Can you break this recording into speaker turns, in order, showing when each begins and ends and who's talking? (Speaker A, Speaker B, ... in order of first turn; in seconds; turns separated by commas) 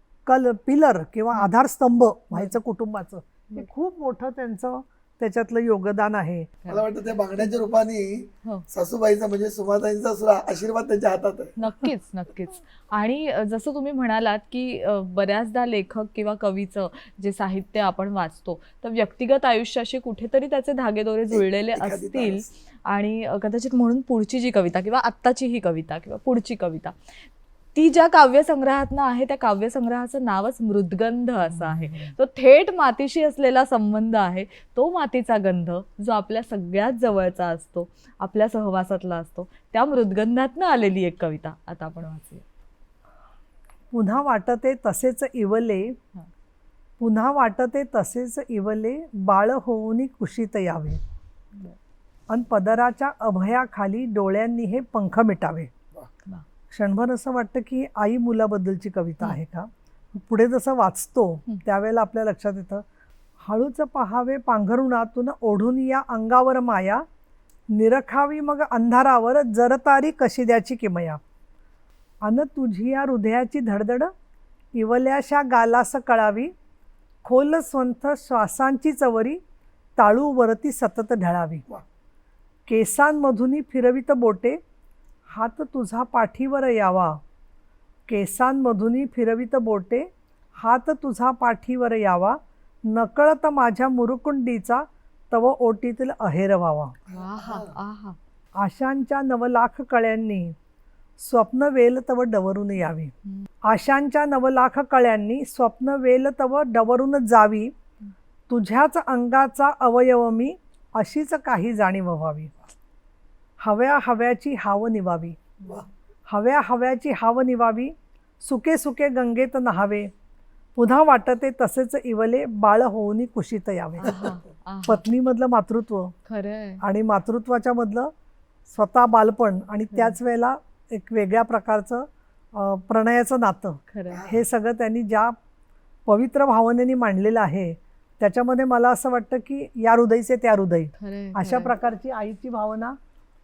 Speaker A: 0.3-6.5, Speaker B: 6.7-11.6, Speaker C: 11.6-26.9, Speaker B: 21.3-22.5, Speaker C: 27.8-42.5, Speaker A: 31.5-32.1, Speaker A: 43.9-46.0, Speaker A: 47.0-51.0, Speaker A: 52.3-55.7, Speaker A: 56.7-62.8, Speaker A: 63.4-67.0, Speaker A: 67.7-71.2, Speaker A: 72.2-74.1, Speaker A: 74.8-76.5, Speaker A: 77.2-79.4, Speaker A: 80.0-81.7, Speaker A: 82.7-84.6, Speaker A: 85.3-87.2, Speaker A: 88.1-97.0, Speaker B: 97.1-97.8, Speaker C: 97.1-98.2, Speaker A: 98.6-100.6, Speaker A: 101.2-103.1, Speaker A: 103.6-107.7, Speaker A: 108.5-112.5, Speaker A: 113.6-115.4, Speaker A: 116.3-120.1, Speaker A: 120.8-124.2, Speaker C: 124.0-125.0, Speaker B: 124.0-124.3, Speaker A: 124.8-126.2, Speaker C: 126.3-126.8, Speaker A: 126.8-128.1, Speaker A: 128.7-135.4, Speaker C: 133.9-134.2, Speaker B: 134.1-134.4, Speaker A: 136.1-143.0, Speaker C: 141.0-141.7